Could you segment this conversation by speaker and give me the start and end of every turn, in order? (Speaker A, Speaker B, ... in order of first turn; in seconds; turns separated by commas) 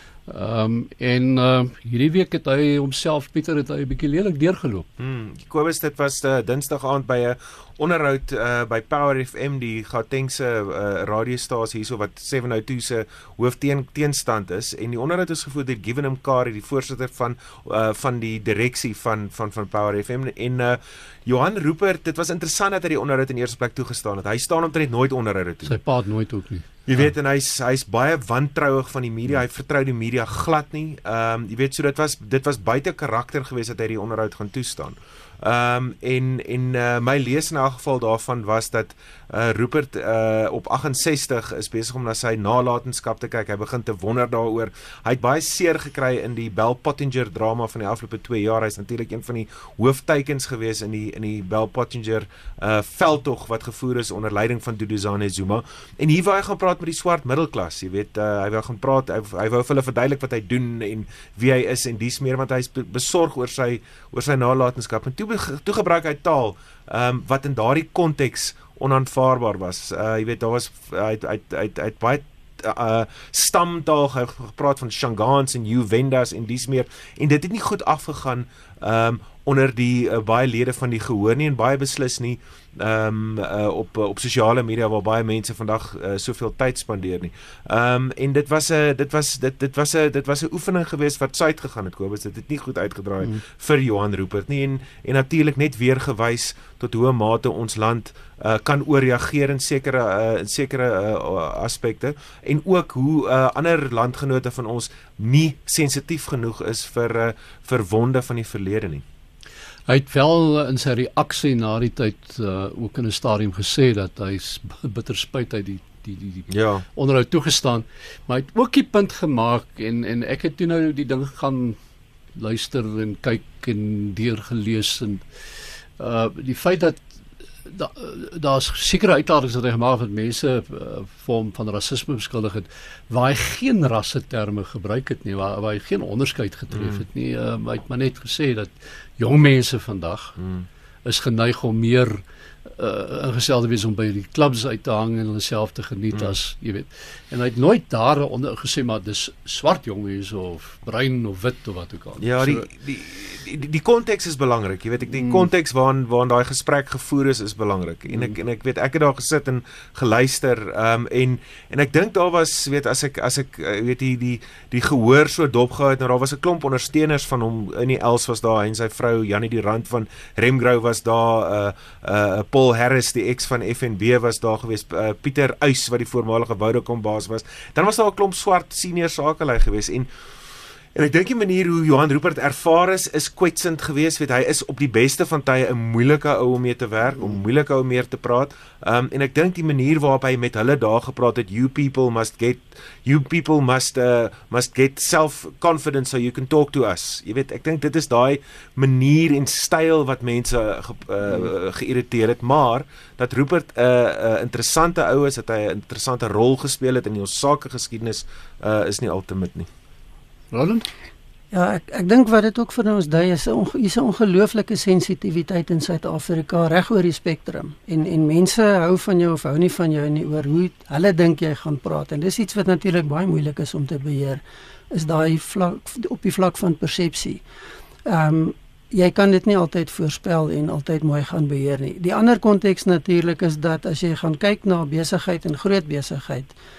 Speaker A: 0.3-4.9, Speaker B: 5.0-25.8, Speaker A: 25.6-26.7, Speaker B: 26.9-109.0, Speaker A: 109.9-121.8, Speaker B: 116.5-116.8, Speaker A: 122.3-125.2, Speaker A: 126.0-127.0, Speaker A: 127.6-140.3, Speaker B: 140.4-140.6, Speaker A: 141.0-142.2, Speaker A: 142.8-152.7, Speaker B: 152.2-180.1, Speaker B: 180.9-209.7, Speaker A: 210.5-210.8, Speaker C: 211.5-227.4, Speaker C: 228.1-236.5